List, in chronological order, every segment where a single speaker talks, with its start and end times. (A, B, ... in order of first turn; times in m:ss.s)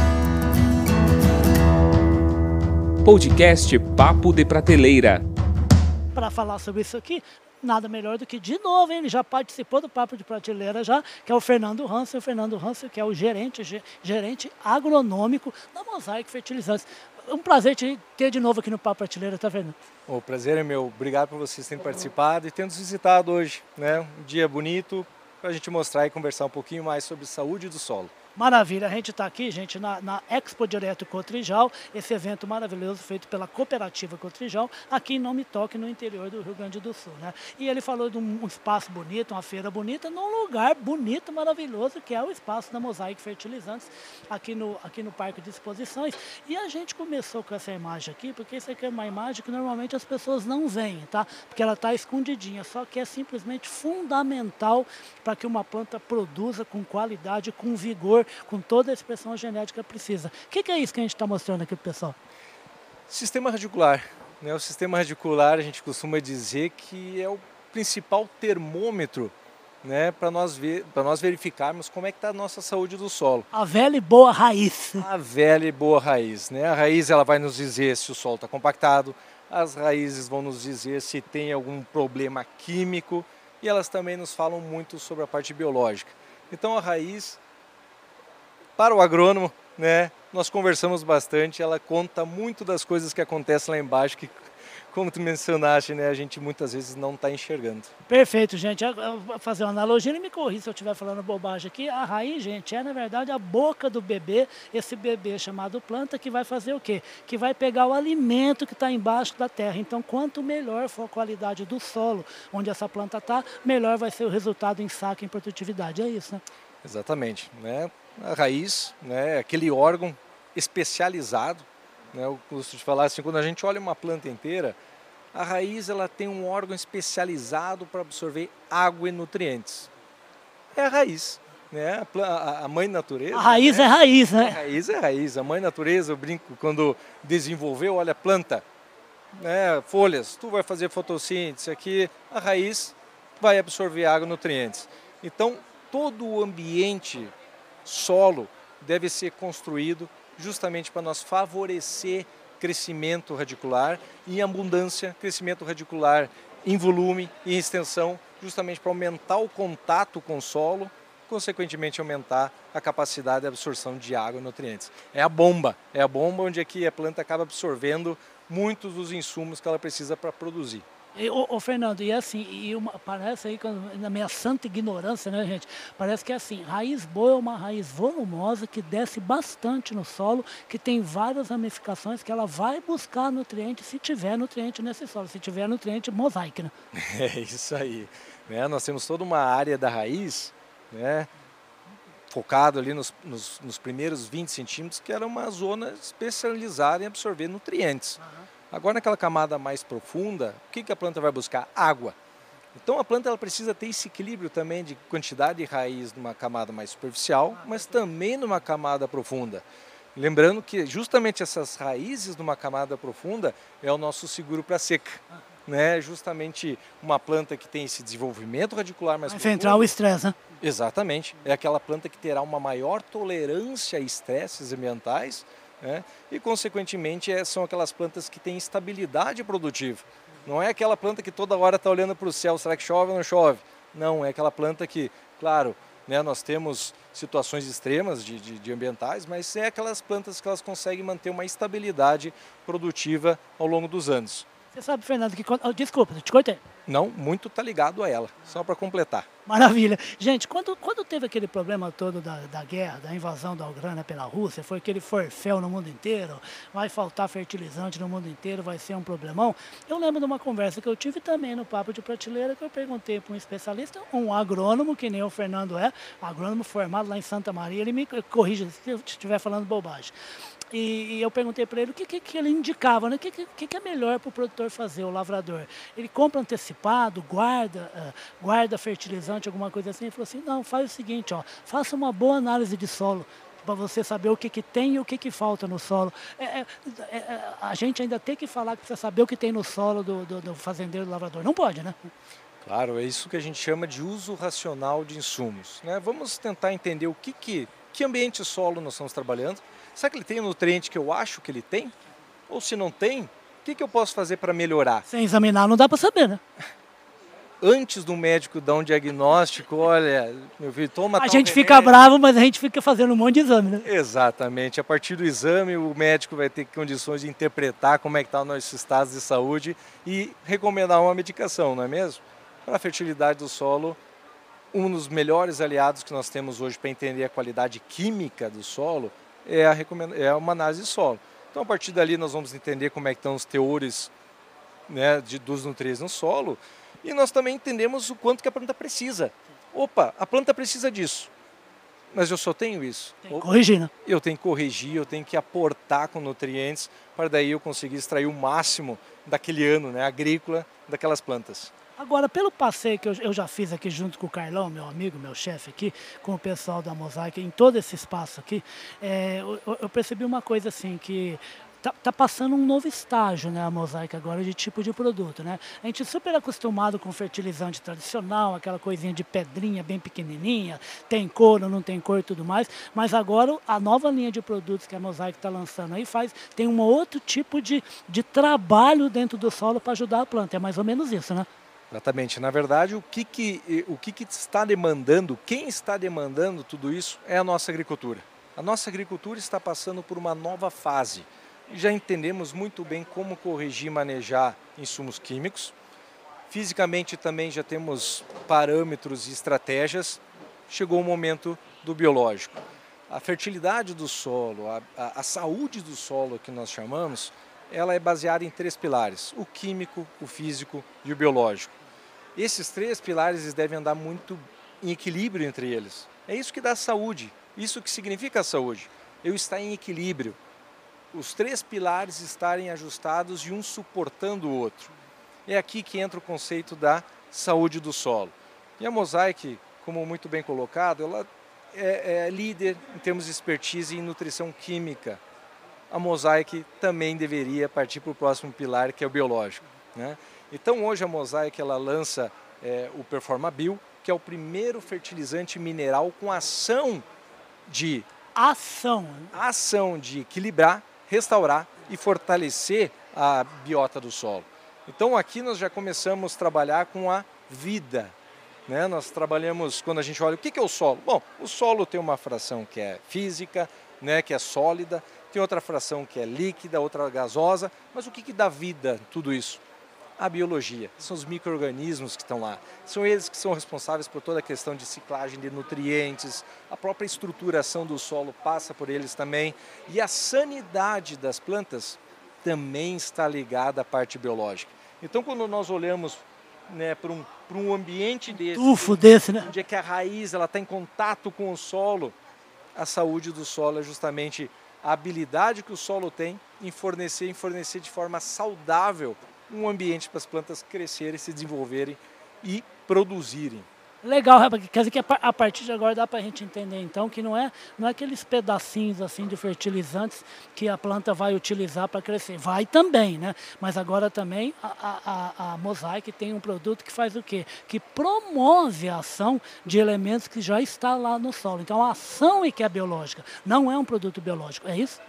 0:03.0-0:05.2 A
0:06.2-0:19.8 B
0:20.1-0:28.1 C
0:28.4-1:02.2 B
1:03.1-1:13.5 C
1:13.5-1:15.1 B
1:15.0-1:27.4 C
1:28.8-1:34.4 C
1:34.9-1:37.9 C
1:38.1-1:56.4 B
1:56.8-2:04.8 C
2:05.3-2:09.9 C
2:10.8-2:18.6 C
2:13.3-2:14.6 B
2:19.4-2:27.3 C
2:27.8-2:50.8 C
2:51.2-3:06.7 B
3:06.9-3:11.3 C
3:12.3-3:22.2 C
3:22.8-3:29.6 C
3:30.2-3:39.9 C
3:39.3-3:40.4 B
3:40.6-4:04.5 C
4:04.7-4:06.6 B
4:06.9-4:09.3 C
4:09.5-4:30.1 B
4:30.7-4:52.1 B
4:52.6-5:01.9 C
5:02.5-5:05.0 C
5:05.1-5:06.4 B
5:07.6-5:12.0 C
5:11.2-5:13.9 B
5:13.8-5:24.0 C
5:24.7-5:34.1 C
5:34.9-5:41.3 C
5:42.1-5:43.5 C
5:43.3-5:43.9 B
5:44.0-5:51.7 C
5:52.0-6:21.5 B
6:21.9-6:35.7 C
6:36.5-6:51.8 C
6:52.4-7:00.4 C
7:01.1-7:04.9 C
7:05.5-7:15.2 C
7:15.9-7:27.0 C
7:27.7-7:28.1 C
7:28.4-7:29.3 B
7:29.3-7:38.1 C
7:38.7-7:49.6 C
7:50.2-8:12.2 C
8:08.5-8:09.5 B
8:12.8-8:23.7 C
8:24.0-8:45.0 B